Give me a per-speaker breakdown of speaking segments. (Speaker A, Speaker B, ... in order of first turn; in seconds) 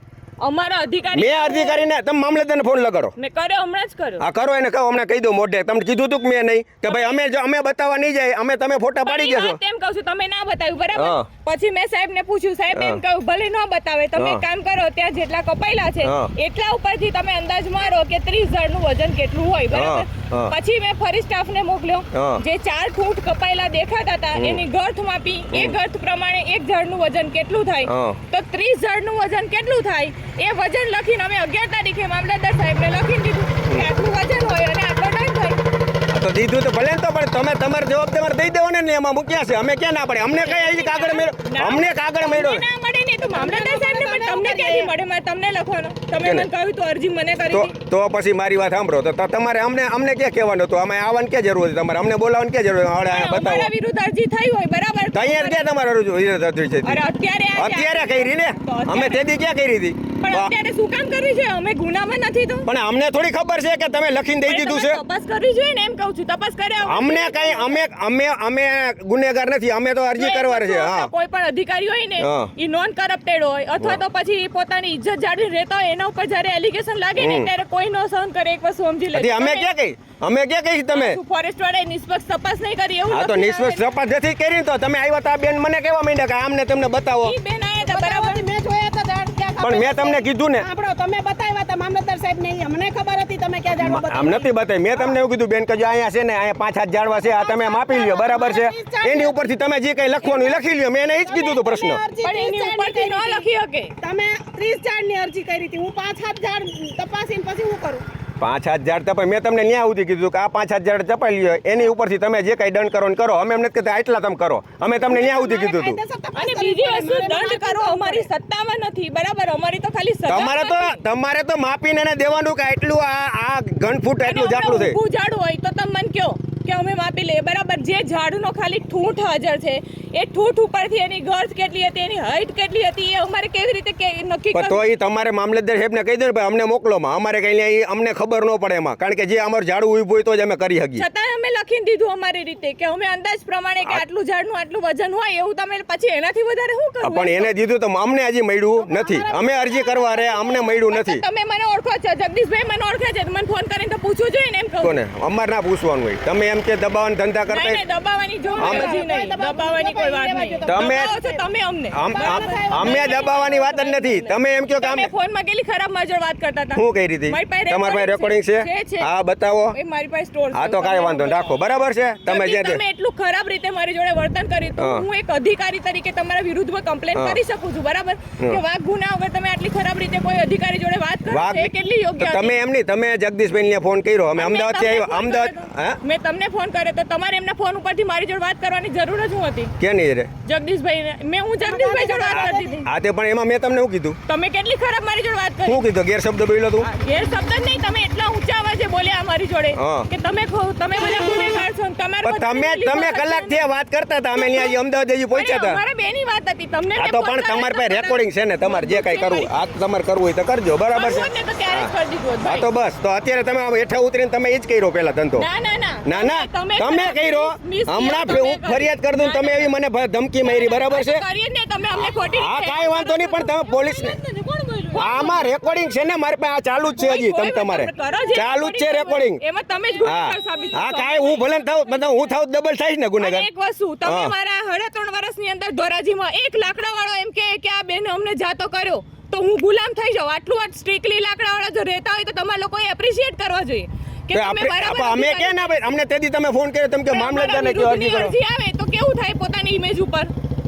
Speaker A: 0.4-1.8, 3.2-4.2, 6.8-7.2, 9.1-35.6, 40.3-47.7, 53.1-55.7, 56.8-59.2, 60.2-62.7, 64.5-67.8, 70.2-79.7, 80.9-83.8, 87.2-88.5, 102.2-103.9, 116.3-121.0, 124.2-134.8, 141.0-147.5, 150.3-155.0, 157.5-169.1, 169.7-171.6, 172.2-182.6, 184.4-189.7, 190.4-192.9, 194.3-195.8, 196.8-203.7, 204.3-204.8, 205.3-209.5, 210.9-212.7, 215.4-219.7, 220.4-225.5, 227.0-231.7, 233.2-245.8, 247.1-250.3
Speaker B: 1.1-3.1, 4.2-9.6, 10.9-11.3, 12.7-13.0, 14.2-14.4, 16.0-16.3, 19.7-20.5, 22.1-22.4, 24.4-24.6, 25.5-25.8, 27.9-28.2, 36.1-42.6, 46.2-46.5, 47.5-53.7, 55.1-57.0, 57.5-60.5, 62.7-65.0, 66.8-71.1, 72.2-72.5, 77.2-77.5, 79.1-81.2, 83.1-87.3, 89.6-90.7, 93.8-102.0, 108.4-116.0, 120.3-125.0, 134.5-141.0, 147.0-151.2, 154.8-157.8, 158.6-158.9, 160.7-161.1, 161.9-165.1, 166.8-169.8, 170.5-172.8, 174.8-175.1, 177.1-177.4, 181.3-186.0, 189.8-190.3, 192.3-194.2, 195.7-196.9, 199.8-200.1, 202.2-205.8, 207.0-211.9, 212.4-215.5, 216.0-221.2, 222.3-224.2, 224.9-229.4, 230.0-233.5, 234.0-234.3, 244.3-248.4
Speaker C: 43.2-44.9, 87.8-95.2, 97.1-99.4, 100.2-100.6, 101.2-103.5, 104.0-108.1, 115.1-118.3, 148.8-150.4, 158.4-161.4, 162.1-163.6, 191.6-192.8